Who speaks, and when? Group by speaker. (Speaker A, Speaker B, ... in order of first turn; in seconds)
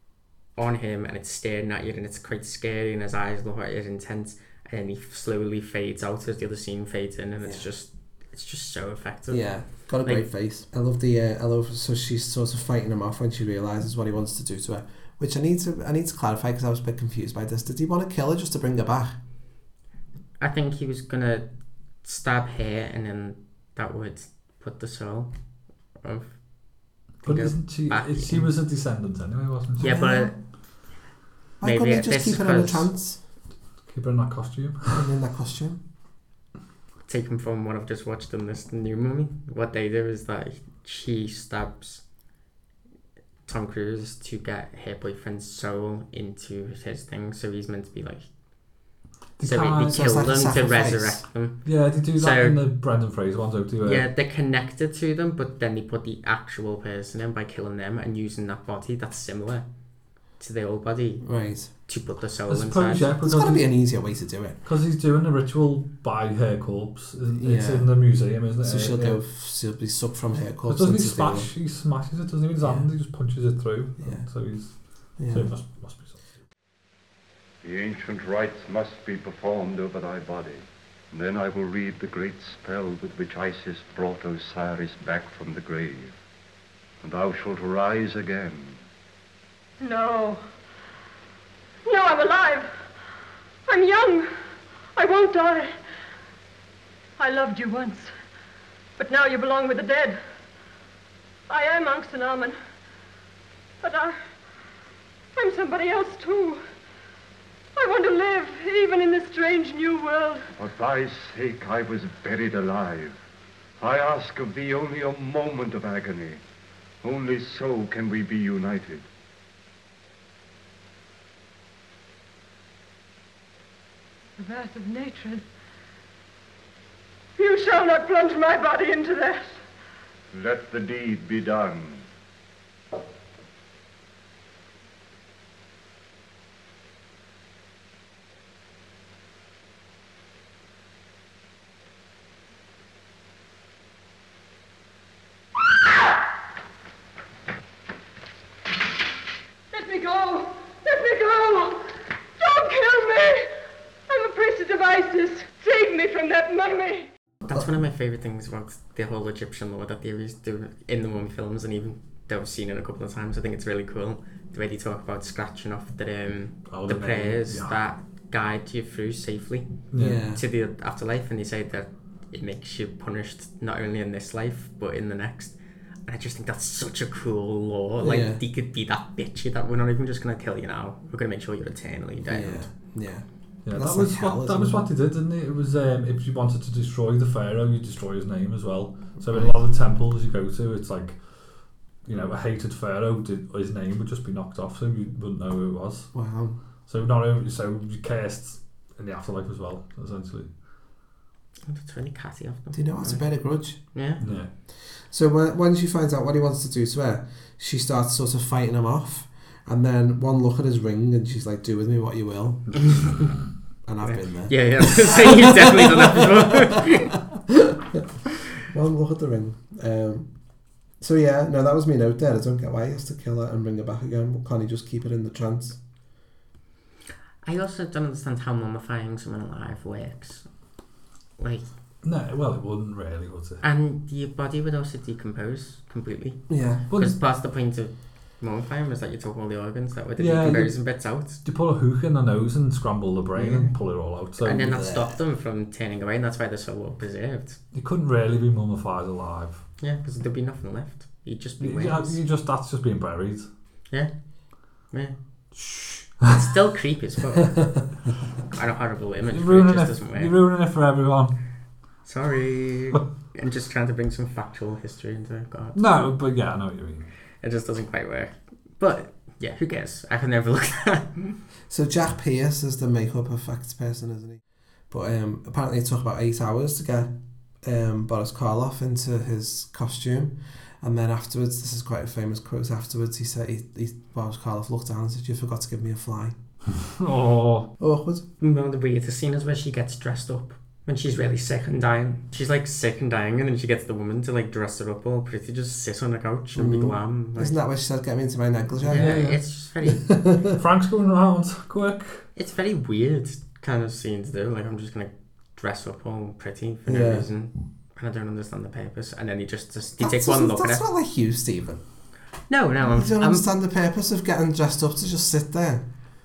Speaker A: 0.6-10.2, 20.4-21.5, 22.0-25.3, 26.0-26.4, 27.2-28.4, 29.8-30.3, 31.6-32.9, 37.1-42.0, 43.5-48.2, 49.4-52.6, 53.8-59.6, 60.4-63.1, 157.5-169.8, 170.3-182.7, 201.7-204.2, 212.9-213.3, 214.0-217.1, 227.4-230.5, 231.4-231.7, 233.6-241.4, 243.3-243.8, 244.4-247.6, 249.8-252.2, 254.9-255.2, 256.3-257.7, 258.5-260.4, 262.1-265.8, 267.4-271.4, 288.4-297.6, 298.9-300.1, 302.4-310.9, 312.5-313.5
Speaker B: 9.3-19.2, 29.8-30.3, 31.6-33.2, 34.9-35.8, 49.9-51.3, 61.2-61.7, 63.2-64.6, 67.4-71.5, 72.6-72.9, 74.0-74.3, 75.2-75.5, 170.0-170.4, 178.0-178.4, 182.2-184.9, 189.3-189.6, 196.1-196.6, 202.7-203.8, 204.8-212.7, 213.8-218.1, 218.6-220.3, 221.0-225.8, 236.5-236.9, 244.6-245.2, 271.7-286.4, 287.8-288.2, 296.6-299.2, 299.9-300.6, 306.9-307.3, 310.0-311.8, 312.9-315.9
Speaker C: 27.2-30.1, 33.9-35.0, 49.4-50.1, 51.6-54.1, 62.5-63.7, 64.7-69.2, 70.7-76.2, 166.7-167.8, 169.9-170.2, 183.7-191.2, 192.0-196.3, 196.9-200.5, 204.2-204.5, 232.0-233.6, 236.9-237.2, 240.2-244.7, 247.7-249.6, 251.6-253.5, 255.6-256.4, 259.3-261.4, 265.8-267.1, 286.9-287.7, 298.9-299.4, 300.6-302.3
Speaker D: 77.6-86.1, 87.0-88.8, 110.6-113.2, 113.8-116.4, 117.0-119.1, 130.3-132.1
Speaker E: 89.8-90.4, 91.8-92.8, 93.7-94.3, 95.0-95.8, 97.2-98.1, 99.0-100.2, 101.5-102.6, 103.8-104.2, 105.3-106.6, 107.8-110.5, 124.4-125.5, 127.4-129.6, 149.7-153.5, 154.1-157.1